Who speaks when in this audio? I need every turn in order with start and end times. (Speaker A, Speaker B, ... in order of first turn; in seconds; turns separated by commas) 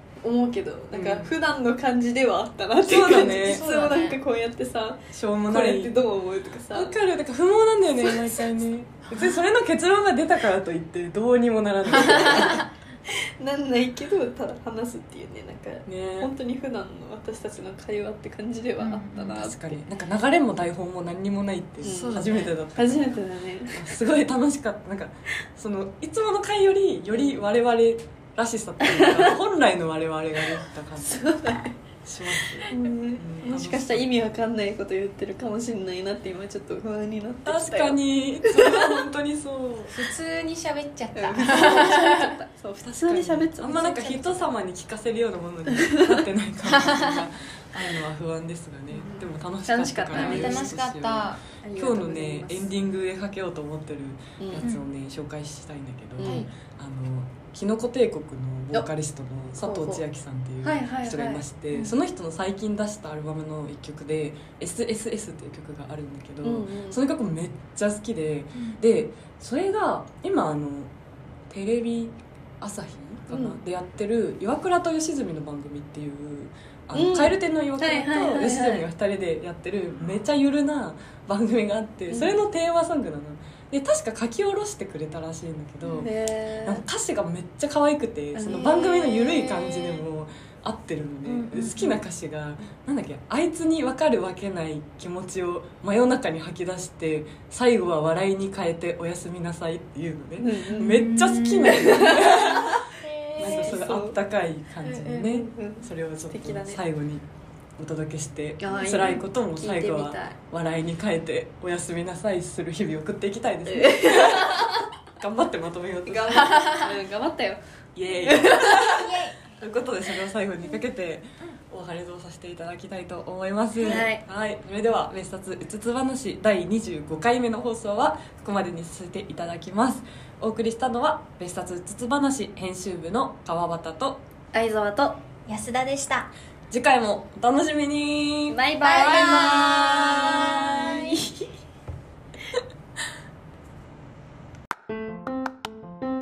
Speaker A: 0.2-6.9, Speaker B: 0.9-1.4, Speaker B: 2.8-4.0, Speaker C: 3.1-4.2, Speaker B: 5.1-6.0, Speaker B: 6.7-12.7, Speaker C: 9.1-9.4, Speaker C: 11.9-12.4, Speaker A: 12.3-19.8, Speaker B: 15.8-16.3, Speaker C: 18.8-19.4, Speaker B: 19.3-23.2, Speaker A: 21.8-24.0, Speaker C: 21.8-22.5, Speaker B: 23.7-31.3, Speaker A: 27.1-27.4, Speaker A: 31.0-31.8, Speaker B: 32.0-34.1, Speaker A: 32.7-38.6, Speaker B: 37.5-40.0, Speaker C: 39.9-42.3, Speaker A: 41.1-43.9, Speaker B: 42.9-70.9, Speaker C: 43.6-44.5, Speaker C: 46.7-47.2, Speaker A: 48.9-50.8, Speaker C: 50.1-51.4, Speaker A: 51.6-52.7, Speaker A: 54.4-54.7, Speaker A: 56.2-56.5, Speaker C: 56.2-56.5, Speaker A: 59.6-60.0, Speaker A: 60.6-62.0, Speaker A: 66.4-67.0, Speaker C: 68.5-68.8, Speaker B: 71.5-86.1, Speaker A: 73.3-73.6, Speaker A: 76.9-78.8, Speaker A: 82.1-82.4, Speaker A: 86.0-86.8, Speaker B: 86.6-102.8, Speaker A: 88.3-90.0, Speaker C: 91.2-92.0, Speaker A: 100.4-101.0, Speaker C: 100.7-103.9, Speaker A: 101.6-102.8, Speaker B: 103.4-107.2, Speaker A: 103.4-104.2, Speaker C: 104.8-105.3, Speaker A: 105.2-106.8, Speaker B: 107.8-116.9, Speaker A: 108.6-110.4, Speaker C: 108.7-109.1, Speaker A: 113.7-114.8, Speaker A: 116.0-117.6, Speaker C: 116.6-116.9, Speaker B: 118.0-134.2, Speaker A: 118.2-119.0, Speaker C: 118.9-119.5, Speaker A: 123.8-124.2, Speaker A: 134.5-135.2, Speaker D: 135.5-136.3, Speaker B: 136.7-138.6, Speaker A: 138.5-141.1, Speaker D: 138.8-141.2